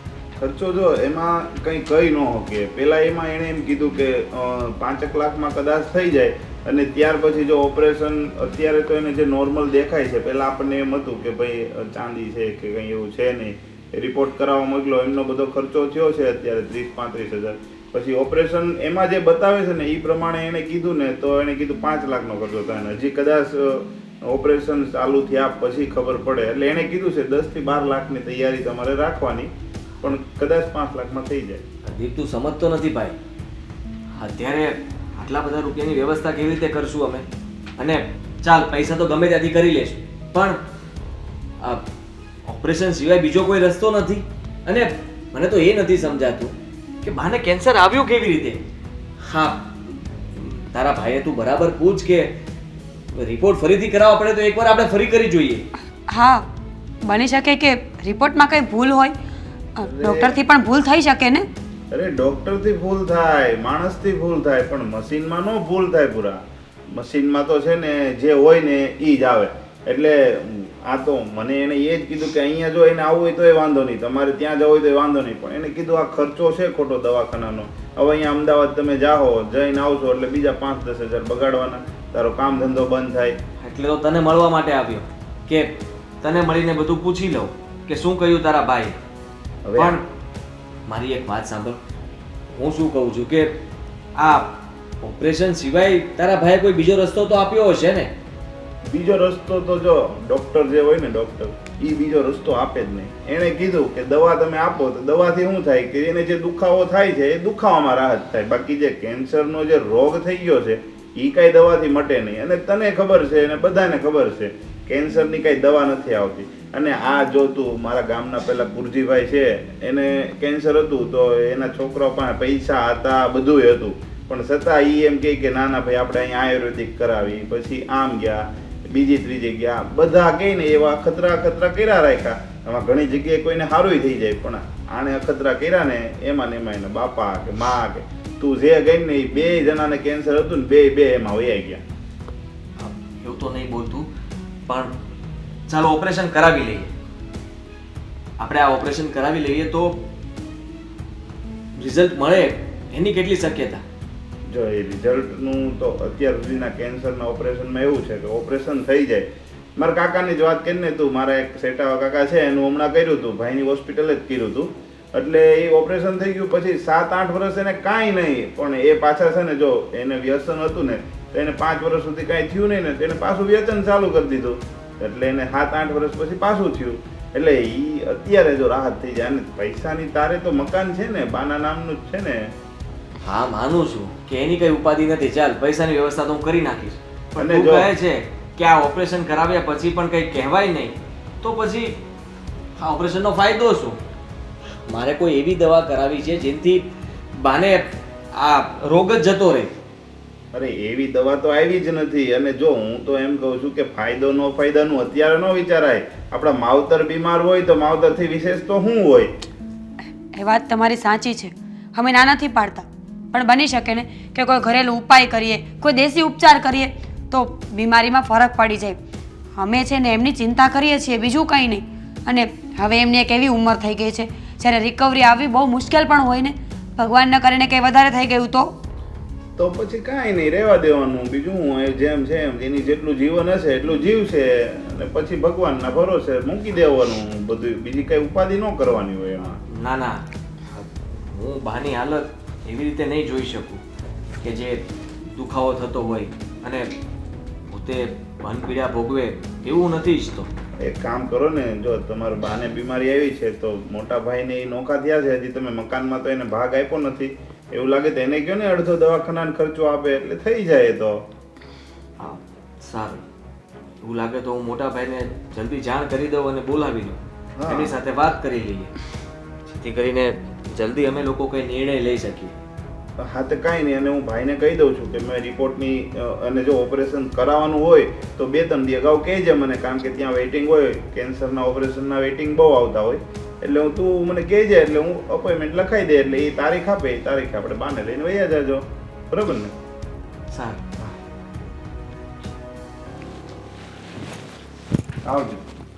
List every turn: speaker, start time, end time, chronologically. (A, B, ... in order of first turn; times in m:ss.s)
0:00.4-0:31.6 A
0:31.9-0:33.2 B
0:34.2-0:37.3 B
0:37.8-0:40.6 B
0:41.6-0:41.9 B
0:42.5-0:48.6 B
0:49.2-0:52.3 B
0:53.1-0:55.7 B
0:56.1-0:56.5 C
0:57.0-0:59.2 C
0:59.8-1:01.4 C
0:59.8-1:00.4 A
1:01.9-1:06.4 A
1:06.9-1:23.4 A
1:23.6-1:29.0 B
1:29.7-1:30.0 A
1:29.8-1:30.1 B
1:30.9-1:31.8 B
1:32.5-1:33.6 B
1:34.2-1:38.1 B
1:38.9-2:21.8 A
2:22.8-2:24.1 B
2:24.7-2:24.9 B
2:25.7-2:26.9 B
2:28.4-2:30.0 B
2:31.8-2:33.8 B
2:34.5-3:02.5 A
3:03.2-3:12.0 B
3:07.4-3:07.9 A
3:12.8-3:14.0 B
3:14.9-3:19.7 B
3:20.5-3:29.3 A
3:30.3-3:39.0 C
3:39.6-3:48.7 C
3:49.6-3:59.6 A
3:59.7-4:03.8 B
4:04.4-4:04.8 B
4:05.3-4:06.9 B
4:07.7-4:10.5 B
4:10.8-4:21.2 A
4:22.2-4:23.2 B
4:24.0-4:29.0 B
4:27.6-4:28.0 A
4:29.7-4:32.6 B
4:33.2-4:49.7 A
4:50.5-4:50.8 B
4:55.2-4:55.6 A